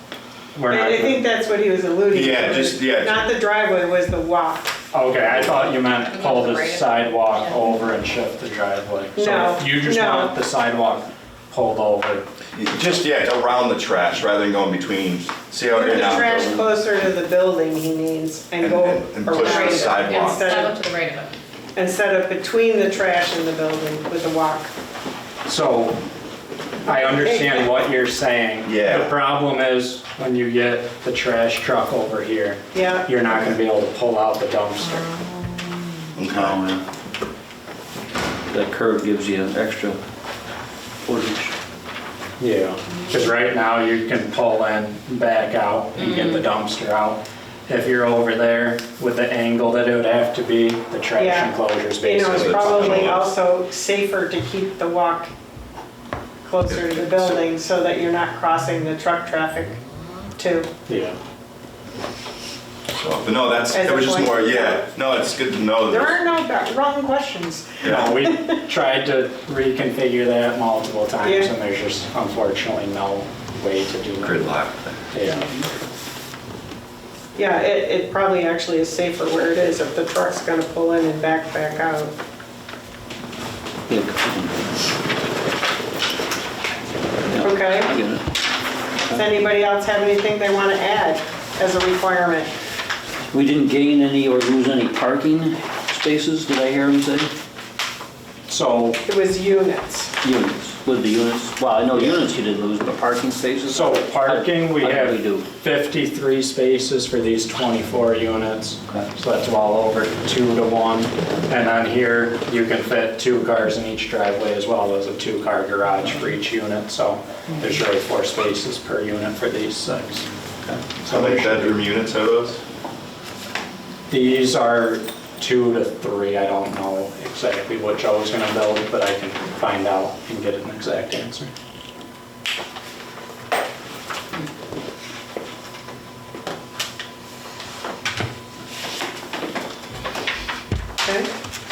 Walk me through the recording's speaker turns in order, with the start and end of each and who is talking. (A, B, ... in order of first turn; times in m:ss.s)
0:00.5-0:01.2 A
0:00.7-0:04.8 B
0:02.1-0:03.3 C
0:04.9-0:12.2 A
0:05.9-0:07.6 D
0:09.2-0:10.4 B
0:12.5-0:16.7 C
0:15.7-0:20.8 B
0:18.6-0:20.5 C
0:19.4-0:21.3 D
0:21.7-0:24.7 B
0:25.4-0:26.0 A
0:26.8-0:35.1 A
0:26.9-0:27.8 B
0:28.6-0:29.1 C
0:32.7-0:33.1 B
0:36.2-0:36.6 C
0:36.3-0:36.8 E
0:38.5-0:40.0 E
0:41.0-0:41.5 E
0:42.4-0:53.2 A
0:51.2-0:55.3 B
0:52.3-0:53.3 C
0:56.4-0:59.8 B
0:56.7-0:57.4 C
1:00.4-1:00.7 B
1:00.9-1:01.1 A
1:02.9-1:06.2 C
1:03.7-1:04.9 B
1:05.8-1:08.6 B
1:07.8-1:14.4 A
1:07.8-1:08.1 C
1:11.2-1:11.5 B
1:14.2-1:15.0 C
1:15.1-1:15.5 A
1:17.3-1:22.1 B
1:23.9-1:24.5 E
1:27.3-1:28.2 E
1:27.4-1:28.0 B
1:29.1-1:32.5 B
1:33.3-1:37.3 E
1:38.5-1:39.0 A
1:39.0-1:40.1 B
1:40.2-1:45.5 E
1:43.7-2:00.3 A
2:00.7-2:02.6 C
2:01.0-2:01.8 A
2:04.1-2:11.5 A
2:21.0-2:21.3 B